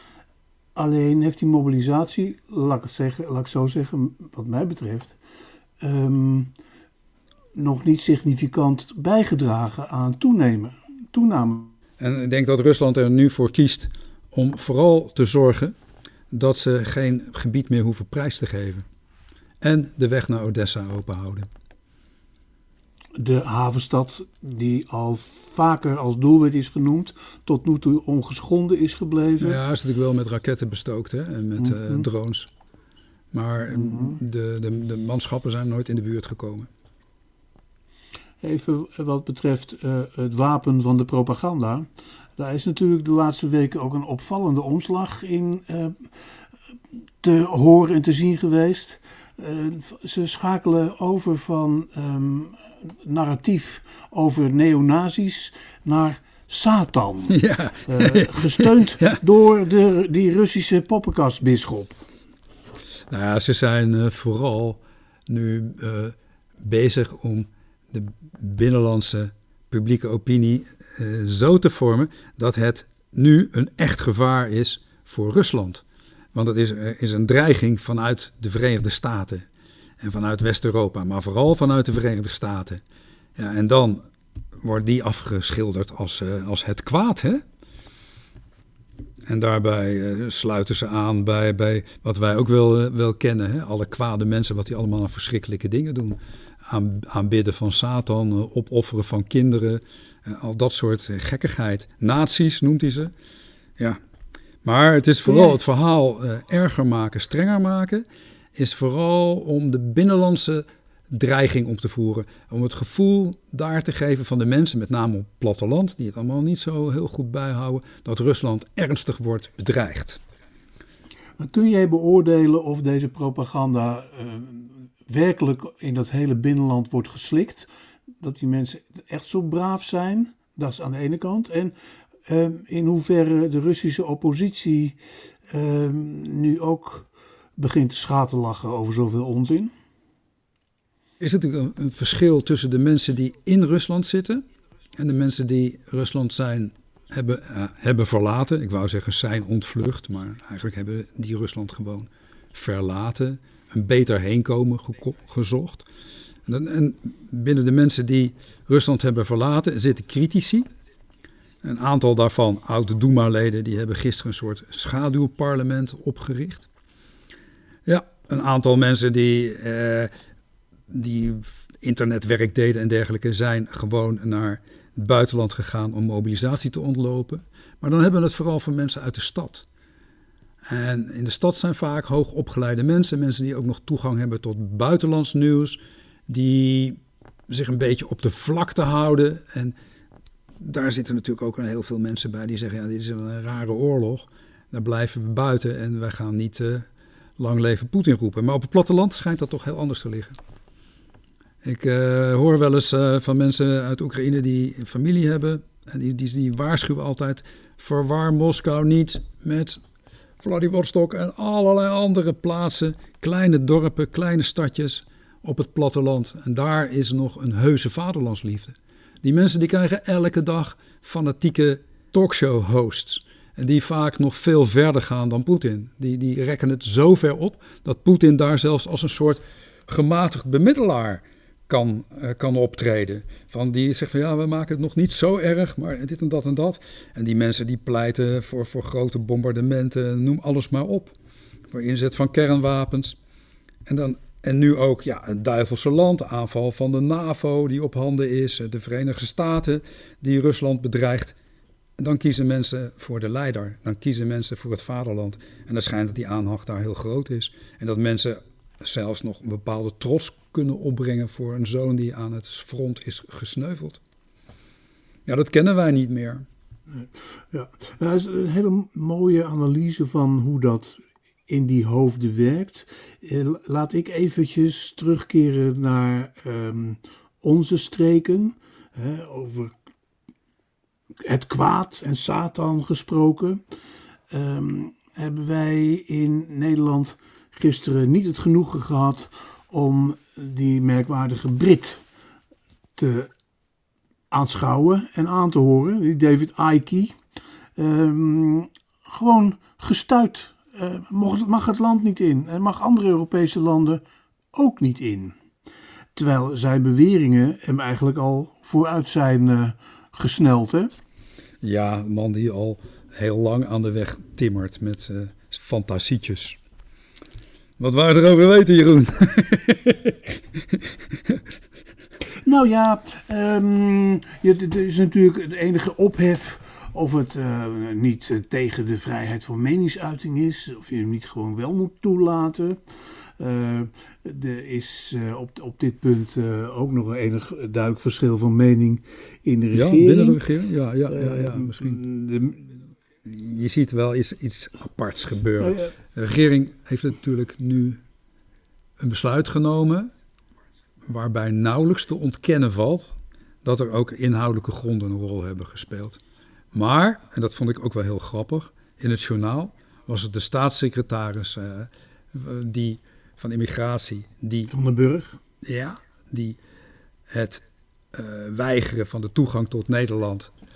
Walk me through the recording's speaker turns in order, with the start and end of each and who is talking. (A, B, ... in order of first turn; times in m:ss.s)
0:00.7-0:05.2 A
0:05.8-0:06.5 A
0:07.5-0:11.7 A
0:12.0-0:15.7 B
0:16.3-0:18.8 B
0:19.6-0:21.5 B
0:23.2-0:29.6 A
0:29.4-0:32.5 B
0:31.6-0:32.0 A
0:33.3-0:36.7 B
0:33.7-0:34.2 A
0:38.4-0:46.1 A
0:47.2-1:02.0 A
0:57.3-0:59.2 B
1:03.1-1:19.4 B
1:20.0-1:22.8 B
1:23.4-1:24.0 B
1:24.6-1:27.4 B
1:29.3-1:43.1 B
1:44.6-2:00.2 B
1:45.2-1:45.6 A
2:01.4-2:07.7 A
2:08.2-2:11.7 A
2:12.2-2:15.0 A
2:15.5-2:19.7 A
2:21.2-2:24.4 B
2:25.0-2:35.8 B
2:36.4-2:40.6 B
2:41.6-2:46.7 B
2:47.8-2:50.1 B
2:50.9-2:59.6 B
3:00.7-3:09.8 B
3:10.6-3:16.9 B
3:17.4-3:20.4 B
3:21.6-3:29.8 B
3:30.4-4:01.1 B
4:01.7-4:03.2 B
4:03.8-4:11.4 B
4:12.0-4:24.0 B
4:25.2-4:26.4 B
4:26.9-4:39.7 A
4:41.2-4:43.6 A
4:44.3-4:52.0 A
4:53.0-4:53.3 A
4:54.3-4:57.2 A
4:57.8-5:04.0 A
5:04.5-5:05.3 A
5:06.1-5:10.9 A
5:11.6-5:16.6 B
5:17.8-5:21.4 B
5:22.4-5:32.8 A
5:33.4-5:40.4 A
5:39.7-5:42.0 B
5:41.1-5:42.7 A
5:43.2-5:48.0 B
5:45.6-5:45.9 A
5:49.0-5:50.1 B
5:51.0-5:56.2 B
5:56.7-6:04.7 B
6:04.7-6:05.4 A
6:05.6-6:06.6 B
6:07.3-6:07.6 B
6:08.1-6:10.5 B